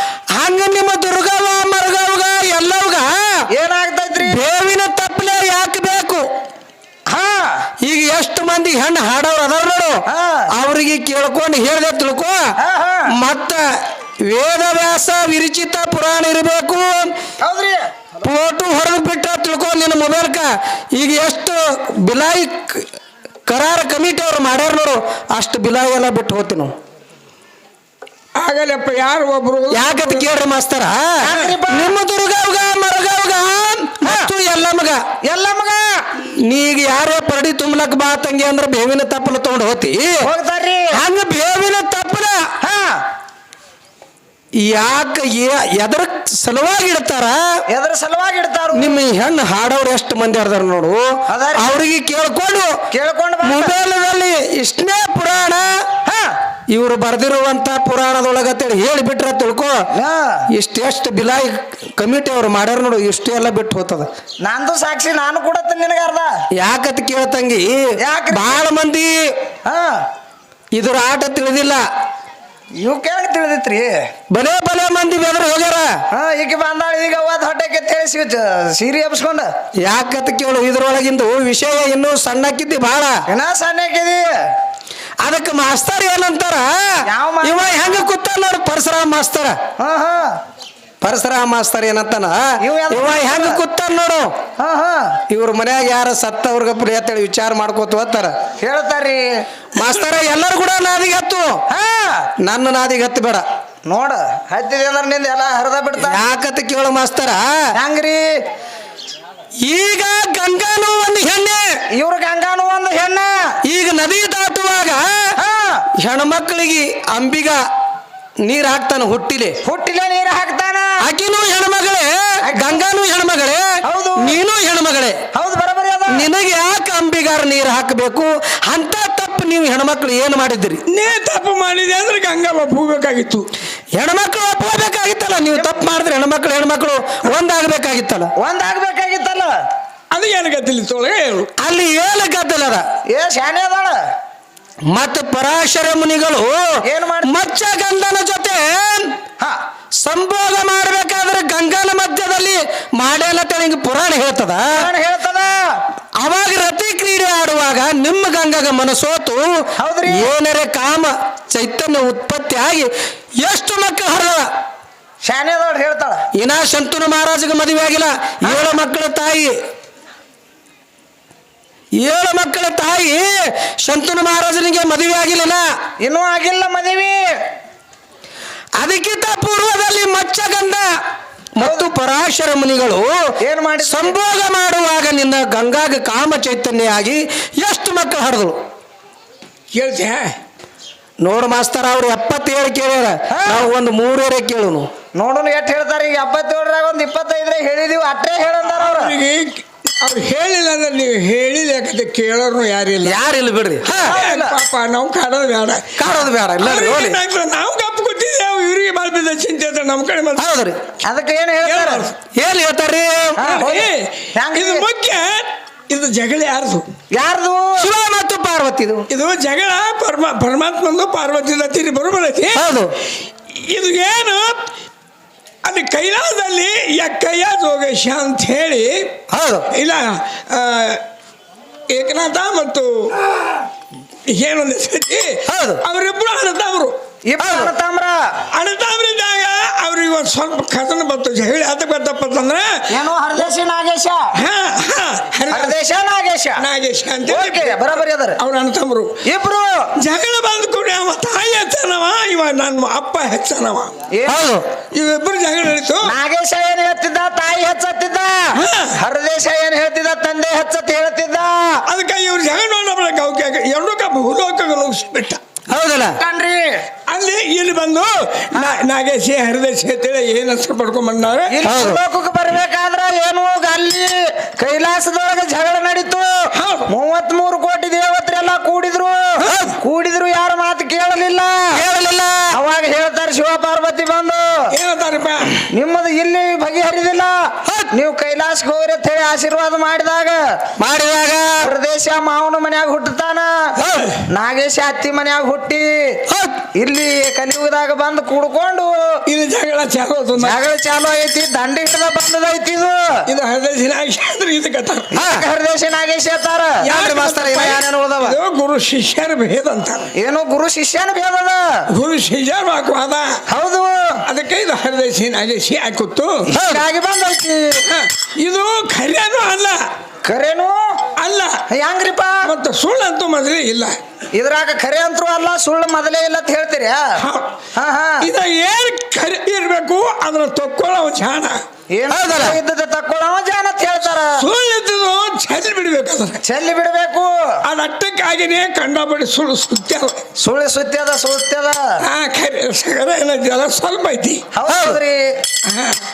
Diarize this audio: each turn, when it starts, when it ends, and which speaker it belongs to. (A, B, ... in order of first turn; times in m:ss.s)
0:00.4-0:03.4 A
0:03.5-0:04.4 B
0:04.2-0:06.2 A
0:07.1-0:07.6 B
0:07.8-0:10.0 A
0:10.1-0:10.5 B
0:10.6-0:12.4 A
0:12.6-0:13.1 B
0:13.1-0:13.7 A
0:14.2-0:17.1 A
0:17.4-0:17.9 B
0:18.2-0:22.8 A
0:23.5-0:26.7 A
0:28.4-0:30.3 C
0:29.7-0:35.0 A
0:31.2-0:31.9 B
0:34.0-0:34.3 B
0:35.2-0:36.0 B
0:36.4-0:40.3 A
0:40.2-0:41.0 B
0:40.9-0:42.5 A
0:42.6-0:43.0 B
0:44.6-0:47.6 A
0:47.7-0:49.0 B
0:48.7-0:52.8 A
0:51.3-0:51.7 B
0:52.9-0:53.8 B
0:53.4-0:55.8 A
0:56.0-0:56.3 B
0:56.7-0:59.8 A
0:59.9-1:00.5 B
1:00.5-1:04.1 A
1:04.4-1:06.3 B
1:06.6-1:09.2 A
1:08.0-1:08.6 B
1:09.6-1:10.0 B
1:10.7-1:11.8 A
1:12.8-1:14.0 B
1:14.3-1:16.0 A
1:16.1-1:19.5 B
1:19.8-1:23.2 A
1:23.3-1:24.2 B
1:25.2-1:29.6 A
1:27.0-1:28.0 B
1:29.8-1:30.4 B
1:31.0-1:34.3 A
1:32.6-1:33.6 B
1:34.6-1:35.2 B
1:35.3-1:38.3 A
1:38.6-1:39.4 B
1:39.8-1:41.6 A
1:41.7-1:42.3 B
1:42.4-1:43.4 A
1:43.9-1:46.2 B
1:46.0-1:47.6 A
1:47.8-1:48.3 B
1:49.6-1:51.8 A
1:51.9-1:53.6 B
1:53.6-1:55.3 A
1:55.4-1:55.8 B
1:56.0-1:57.6 A
1:58.4-1:59.6 A
1:59.6-2:01.0 B
2:01.0-2:05.2 A
2:02.4-2:02.8 B
2:03.8-2:04.4 B
2:05.3-2:06.3 B
2:06.1-2:10.8 A
2:10.9-2:13.5 C
2:14.0-2:18.3 A
2:18.4-2:19.5 B
2:20.1-2:21.5 C
2:21.6-2:22.8 A
2:23.1-2:24.0 B
2:24.9-2:26.7 A
2:26.8-2:27.4 B
2:27.2-2:29.2 A
2:30.0-2:34.8 A
2:34.7-2:35.8 B
2:36.2-2:44.5 A
2:39.8-2:40.3 B
2:45.2-2:46.2 B
2:46.3-2:49.5 A
2:52.0-2:55.6 A
2:56.0-2:57.2 B
2:58.8-3:00.9 A
3:01.6-3:03.3 A
3:01.6-3:01.9 B
3:03.4-3:04.2 B
3:03.8-3:08.6 A
3:09.7-3:10.3 C
3:11.2-3:14.9 A
3:13.3-3:13.6 B
3:15.2-3:19.1 B
3:18.7-3:23.2 C
3:23.0-3:24.2 A
3:24.0-3:26.0 C
3:24.0-3:24.6 B
3:26.0-3:27.2 A
3:26.6-3:30.5 C
3:30.4-3:30.8 A
3:31.1-3:32.1 B
3:31.6-3:32.2 C
3:32.3-3:33.4 A
3:33.4-3:34.9 B
3:33.4-3:36.9 C
3:37.1-3:37.9 B
3:37.8-3:39.1 A
3:39.1-3:42.7 C
3:42.5-3:42.9 A
3:43.5-3:44.6 C
3:45.6-3:49.1 C
3:49.3-3:49.7 A
3:49.7-3:51.0 C
3:51.9-3:53.3 C
3:54.3-3:55.3 C
3:55.5-3:55.8 A
3:55.8-3:57.0 C
3:57.3-3:58.2 B
3:57.4-3:57.7 A
3:58.5-4:02.8 C
4:02.9-4:04.3 B
4:04.4-4:05.8 C
4:05.5-4:06.6 B
4:06.6-4:09.2 C
4:07.2-4:08.4 B
4:09.2-4:09.9 B
4:10.0-4:13.9 C
4:14.1-4:14.5 B
4:14.3-4:14.6 A
4:14.9-4:16.1 C
4:16.0-4:21.8 B
4:18.6-4:19.0 C
4:21.9-4:25.4 C
4:25.7-4:26.1 A
4:26.2-4:26.8 B
4:27.1-4:31.5 C
4:31.5-4:41.8 B
4:31.6-4:32.0 A
4:36.5-4:36.9 C
4:39.4-4:39.8 A
4:41.8-4:42.5 A
4:42.5-4:44.6 B
4:44.7-4:45.6 C
4:45.7-4:50.4 B
4:50.8-4:51.7 A
4:51.6-4:53.8 B
4:53.8-4:54.1 A
4:54.3-4:56.2 B
4:56.3-4:56.6 A
4:56.8-4:58.9 B
4:59.3-5:00.6 C
5:00.4-5:03.0 B
5:03.3-5:05.1 C
5:05.1-5:06.8 B
5:05.2-5:05.4 A
5:06.8-5:10.1 C
5:06.9-5:08.4 A
5:10.2-5:11.8 B
5:11.9-5:13.4 C
5:13.5-5:14.2 B
5:14.3-5:16.5 C
5:16.5-5:16.8 A
5:16.5-5:17.8 B
5:17.9-5:19.8 C
5:20.3-5:20.8 B
5:21.2-5:21.6 C
5:21.7-5:22.5 B
5:22.4-5:24.0 C
5:24.4-5:27.2 B
5:27.2-5:27.5 C
5:27.8-5:28.3 B
5:28.2-5:31.6 C
5:31.9-5:34.4 B
5:32.1-5:32.6 A
5:34.4-5:36.4 C
5:36.4-5:37.3 B
5:37.6-5:40.2 C
5:40.4-5:42.0 B
5:42.0-5:44.4 C
5:44.6-5:45.3 B
5:44.7-5:45.0 A
5:45.7-5:46.0 C